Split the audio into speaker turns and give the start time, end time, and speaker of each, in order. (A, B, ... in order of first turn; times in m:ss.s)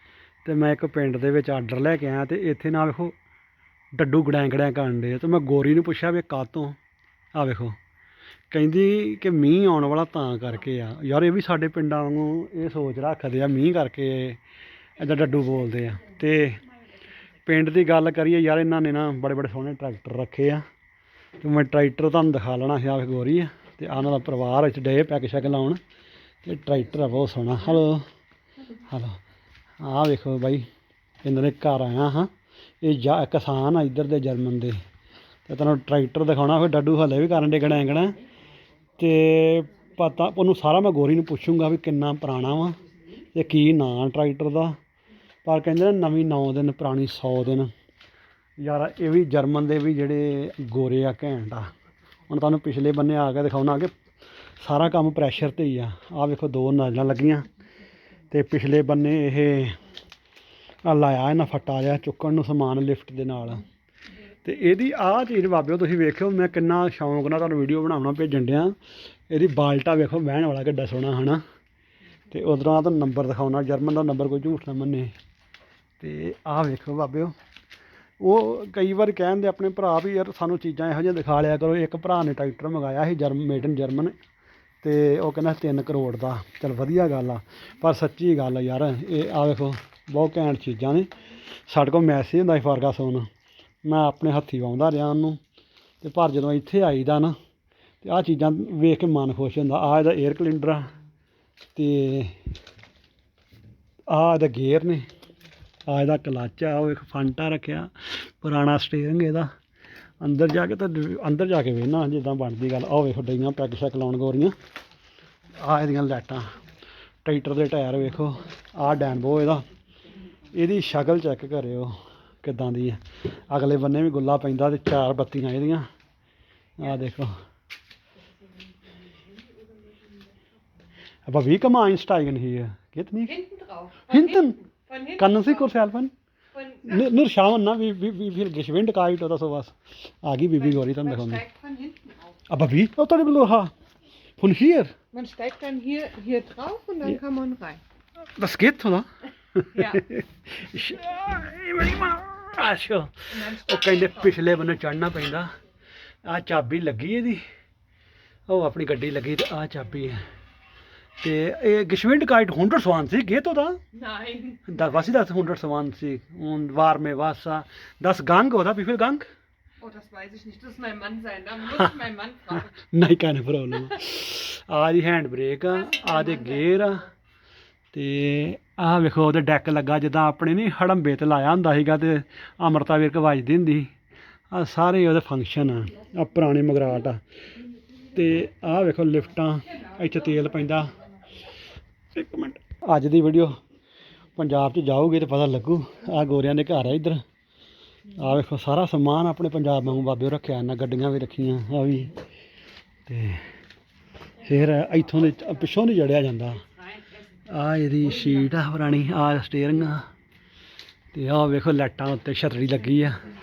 0:00.4-0:03.2 A
0:03.9-0:06.8 A
0:07.4-0:07.8 A
0:08.5-0:14.4 A
0:15.0-0:16.6 A
0:17.4-0:20.6 A
0:21.4-0:25.8 A
0:26.4-0:28.0 A
0:28.9-0:29.2 A
0:29.8-0:30.7 A
0:31.2-0:32.3 A
0:32.8-0:34.8 A
0:35.5-0:38.2 A
0:39.0-0:42.8 A
0:43.3-0:44.8 A
0:45.4-0:47.7 A
0:48.6-0:51.7 A
0:52.3-0:53.9 A
0:54.6-0:57.4 A
0:58.3-0:59.8 A
1:00.8-1:03.6 A
1:04.4-1:08.8 A
1:09.3-1:11.4 A
1:12.3-1:15.1 A
1:16.0-1:17.3 A
1:18.2-1:24.2 A
1:24.8-1:31.1 A
1:31.7-1:33.3 A
1:33.8-1:35.4 A
1:36.0-1:37.4 A
1:38.0-1:40.9 A
1:41.8-1:42.4 A
1:44.1-1:45.0 A
1:45.9-1:49.5 A
1:50.2-1:54.6 A
1:55.6-1:56.5 A
1:57.2-1:59.7 A
2:00.5-2:05.9 A
2:06.8-2:07.4 A
2:11.3-2:13.4 A
2:13.3-2:15.7 B
2:14.1-2:14.6 A
2:15.2-2:16.1 A
2:16.5-2:17.1 B
2:16.8-2:21.4 A
2:20.6-2:22.2 B
2:22.5-2:23.7 A
2:24.4-2:24.9 A
2:25.1-2:27.8 B
2:28.4-2:35.5 A
2:29.8-2:30.0 B
2:33.4-2:34.1 B
2:36.2-2:37.4 A
2:38.5-2:40.2 A
2:41.2-2:43.8 A
2:43.9-2:44.6 B
2:44.7-2:49.3 A
2:49.8-2:52.8 B
2:52.6-2:57.1 A
2:55.9-2:56.7 B
2:57.9-3:03.9 A
3:04.5-3:07.2 A
3:08.1-3:11.0 A
3:12.2-3:13.6 A
3:14.4-3:17.2 A
3:18.1-3:22.1 A
3:23.1-3:23.4 A
3:24.4-3:26.6 A
3:27.5-3:30.1 A
3:31.1-3:33.2 A